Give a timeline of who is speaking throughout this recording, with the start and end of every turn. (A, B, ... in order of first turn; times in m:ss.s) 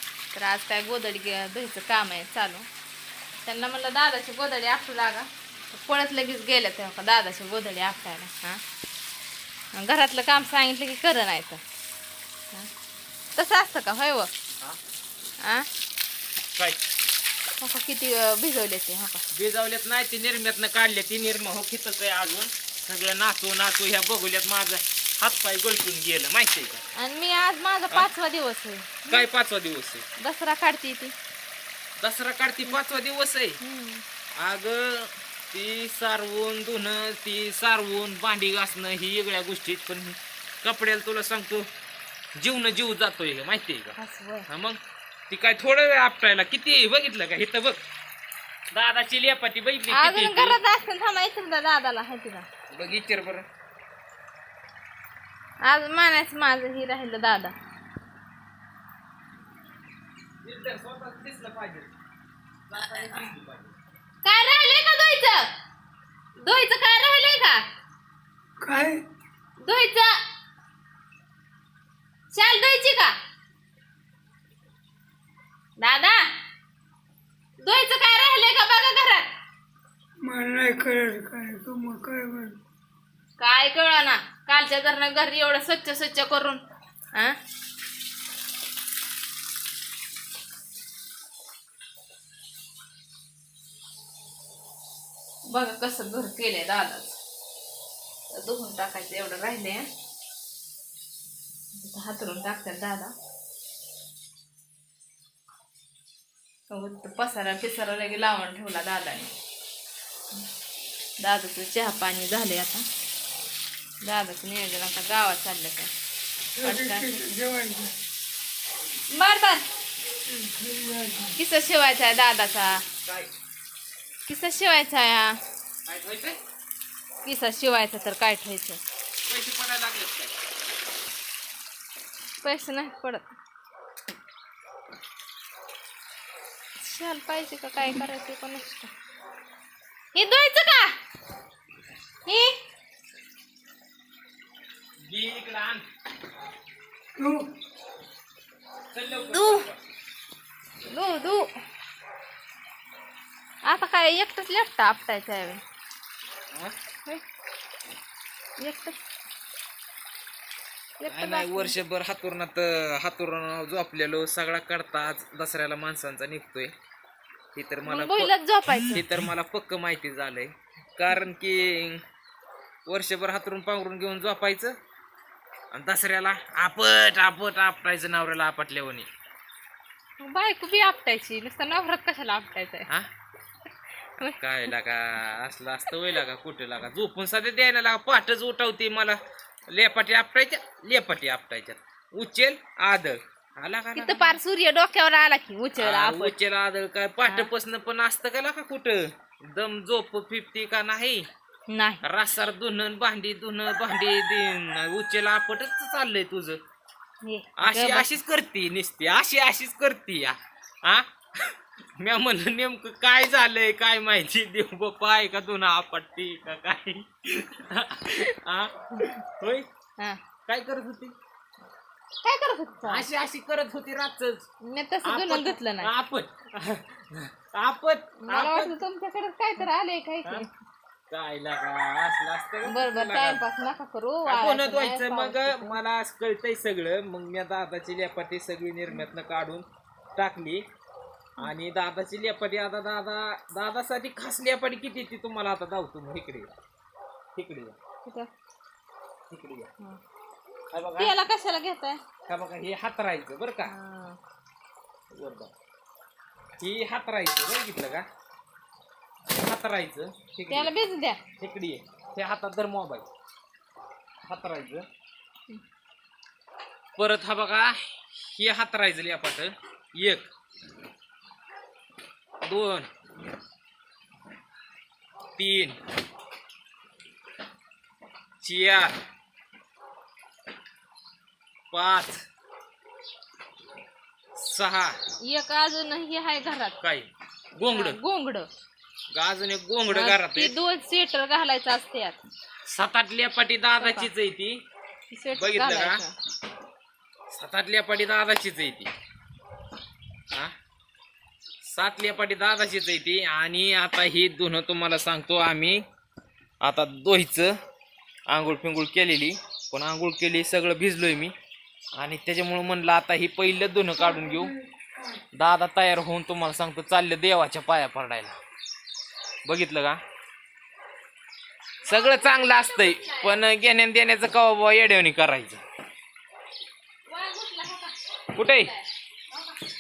0:00.3-0:02.7 A
0:03.4-0:08.6 A
0:09.7-0:11.6 A
0:13.4-0:14.3 A
0:17.6-0:19.2 A
0:19.3-0:26.8 B
0:27.0-0:29.3 A
0:29.1-0:30.1 B
0:30.2-0:31.1 A
0:32.0-0:33.6 B
0:33.6-0:34.0 A
0:34.4-0:41.7 B
0:42.4-0:44.0 B
0:44.0-0:44.5 A
0:44.5-0:44.8 B
0:45.3-0:47.8 B
0:48.7-0:50.6 B
0:49.9-0:52.5 A
0:52.7-0:53.4 B
0:55.6-0:57.5 A
1:00.4-1:01.9 B
1:02.7-1:03.8 B
1:04.2-1:05.5 A
1:06.4-1:07.6 A
1:08.6-1:09.0 C
1:09.6-1:10.2 A
1:12.3-1:13.1 A
1:15.8-1:16.3 A
1:17.6-1:19.3 A
1:20.2-1:22.6 C
1:23.4-1:26.6 A
1:35.5-1:37.2 A
1:38.3-1:39.9 A
1:41.8-1:43.1 A
1:46.7-1:49.3 A
1:51.2-1:52.8 A
1:54.0-1:55.9 A
1:56.6-1:57.9 C
1:56.6-1:57.2 A
1:59.1-1:59.6 A
2:00.5-2:01.3 C
2:01.4-2:02.8 A
2:03.0-2:03.3 B
2:04.3-2:05.4 A
2:05.9-2:06.4 B
2:07.2-2:08.8 A
2:09.2-2:10.3 B
2:12.4-2:13.3 A
2:16.8-2:18.9 A
2:20.1-2:20.9 A
2:22.3-2:22.5 A
2:25.0-2:25.8 B
2:27.2-2:27.5 C
2:28.9-2:29.8 B
2:29.3-2:29.7 A
2:30.9-2:31.5 A
2:33.7-2:35.6 A
2:38.6-2:39.0 A
2:41.0-2:41.8 A
2:41.1-2:46.7 B
2:47.6-2:48.3 B
2:47.9-2:49.0 A
2:48.9-2:52.0 B
2:52.9-2:54.8 B
2:55.7-2:59.1 B
3:00.2-3:02.9 A
3:04.4-3:14.4 B
3:14.0-3:16.4 A
3:15.8-3:21.3 B
3:21.7-3:22.0 A
3:22.0-3:26.6 B
3:27.2-3:28.1 A
3:27.6-3:39.7 B
3:40.5-3:41.1 B
3:42.2-3:43.1 A
3:42.8-3:44.5 B
3:44.6-3:45.9 A
3:45.0-3:48.8 B
3:48.2-3:50.5 A
3:51.1-3:53.4 B
3:52.7-3:55.8 A
3:54.3-3:59.6 B
4:00.2-4:00.6 B
4:01.4-4:06.5 B
4:07.4-4:07.8 B
4:08.0-4:08.3 A
4:09.3-4:09.7 B
4:10.7-4:11.2 B
4:11.0-4:12.0 A
4:12.3-4:13.7 B
4:13.7-4:14.2 A
4:15.1-4:15.5 B
4:16.6-4:18.0 B
4:19.3-4:20.7 B
4:20.5-4:21.2 A
4:21.4-4:23.1 B
4:24.3-4:24.9 B
4:27.0-4:30.3 B
4:32.4-4:32.9 B
4:35.4-4:35.8 B
4:38.4-4:39.0 B
4:41.7-4:42.2 B
4:44.4-4:45.0 B
4:45.3-4:46.8 A
4:46.8-4:48.0 B
4:47.7-4:48.5 A
4:49.1-4:50.5 B
4:49.9-4:52.2 A
4:52.7-4:54.6 B
4:53.8-4:54.1 A
4:55.1-4:56.1 A
4:55.4-4:56.0 B
4:57.3-4:58.9 B
5:01.6-5:05.8 B
5:06.6-5:07.6 B
5:08.3-5:11.3 B
5:12.0-5:14.5 B
5:14.1-5:15.2 C
5:15.3-5:18.4 B
5:19.5-5:20.0 B
5:21.8-5:23.4 A
5:21.9-5:25.6 B
5:27.1-5:29.5 A
5:28.4-5:28.7 B